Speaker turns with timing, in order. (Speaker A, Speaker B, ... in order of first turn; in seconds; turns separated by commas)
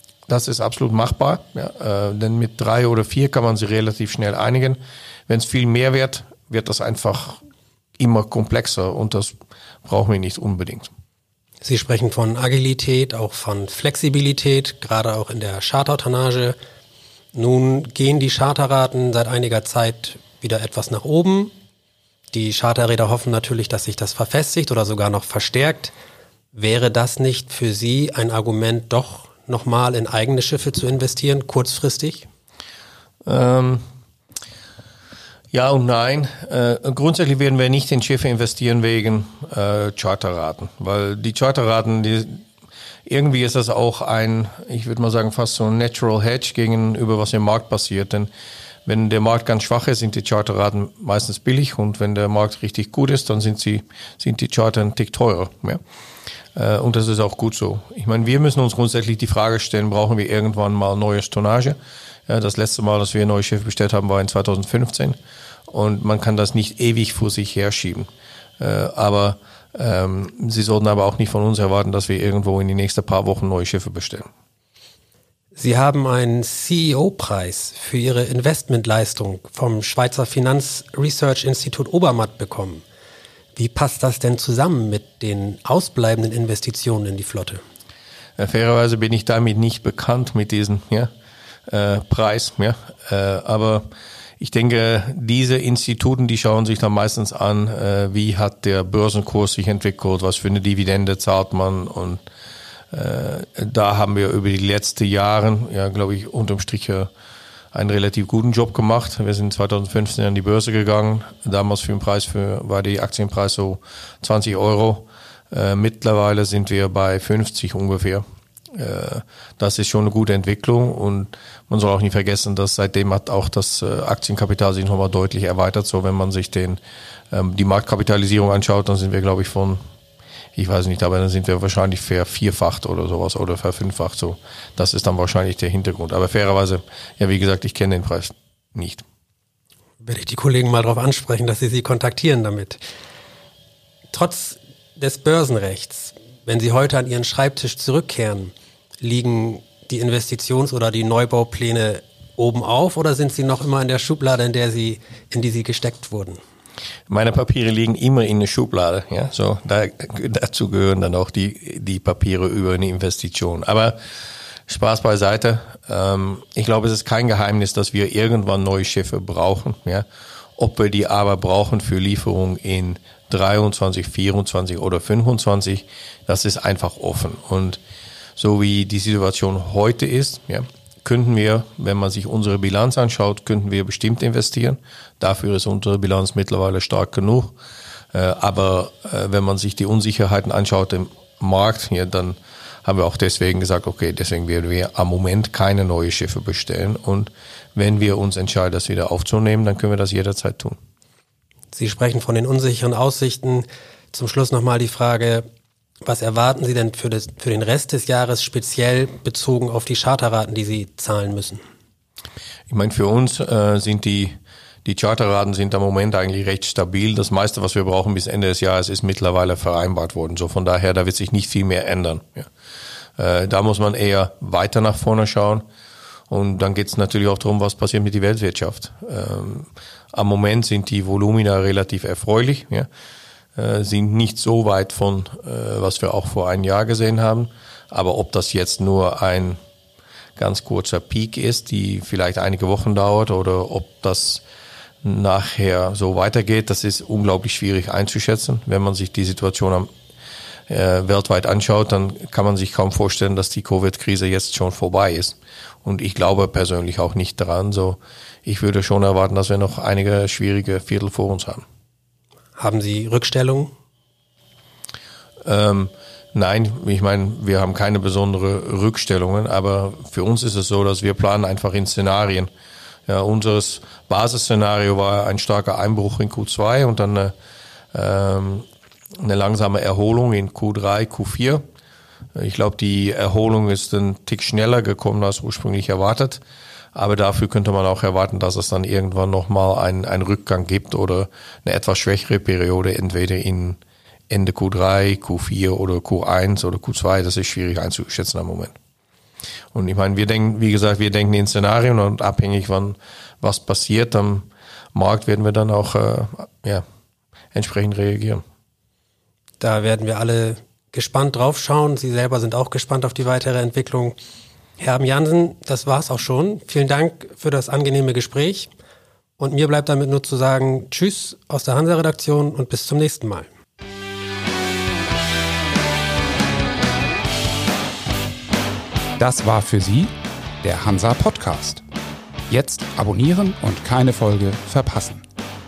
Speaker A: 0.3-7.4, Speaker A: 8.0-9.3, Speaker A: 9.8-10.9, Speaker B: 11.6-16.6, Speaker B: 17.3-21.5, Speaker B: 22.3-25.9, Speaker B: 26.5-32.3, Speaker A: 33.2-33.8, Speaker A: 35.5-42.4, Speaker A: 43.1-48.3, Speaker A: 48.9-55.8, Speaker A: 56.5-65.2, Speaker A: 65.7-74.3, Speaker B: 75.5-82.8, Speaker B: 83.5-87.6, Speaker A: 88.4-91.1, Speaker A: 91.7-93.8, Speaker A: 94.4-102.2, Speaker A: 102.9-107.1, Speaker A: 107.7-118.2, Speaker A: 118.7-126.8, Speaker A: 127.3-129.8, Speaker A: 130.6-139.0, Speaker B: 140.0-142.8, Speaker B: 144.1-156.4, Speaker A: 157.1-163.9, Speaker A: 164.7-170.1, Speaker A: 170.6-177.8, Speaker A: 178.4-187.5, Speaker A: 188.1-200.8, Speaker B: 201.7-205.4, Speaker B: 206.0-211.6, Speaker A: 212.7-222.5, Speaker A: 223.2-225.6, Speaker A: 226.3-232.9, Speaker A: 233.6-239.6, Speaker A: 240.4-244.4, Speaker A: 245.0-249.9, Speaker A: 250.7-261.6, Speaker B: 262.6-263.7, Speaker A: 265.4-272.5, Speaker A: 273.1-277.3, Speaker A: 277.9-278.6, Speaker A: 279.2-281.6, Speaker A: 282.3-286.4, Speaker A: 286.9-298.7, Speaker A: 299.7-306.8, Speaker A: 307.5-308.4, Speaker B: 309.6-314.2, Speaker B: 314.8-318.7, Speaker B: 319.4-323.5, Speaker C: 329.2-331.8, Speaker C: 332.5-335.2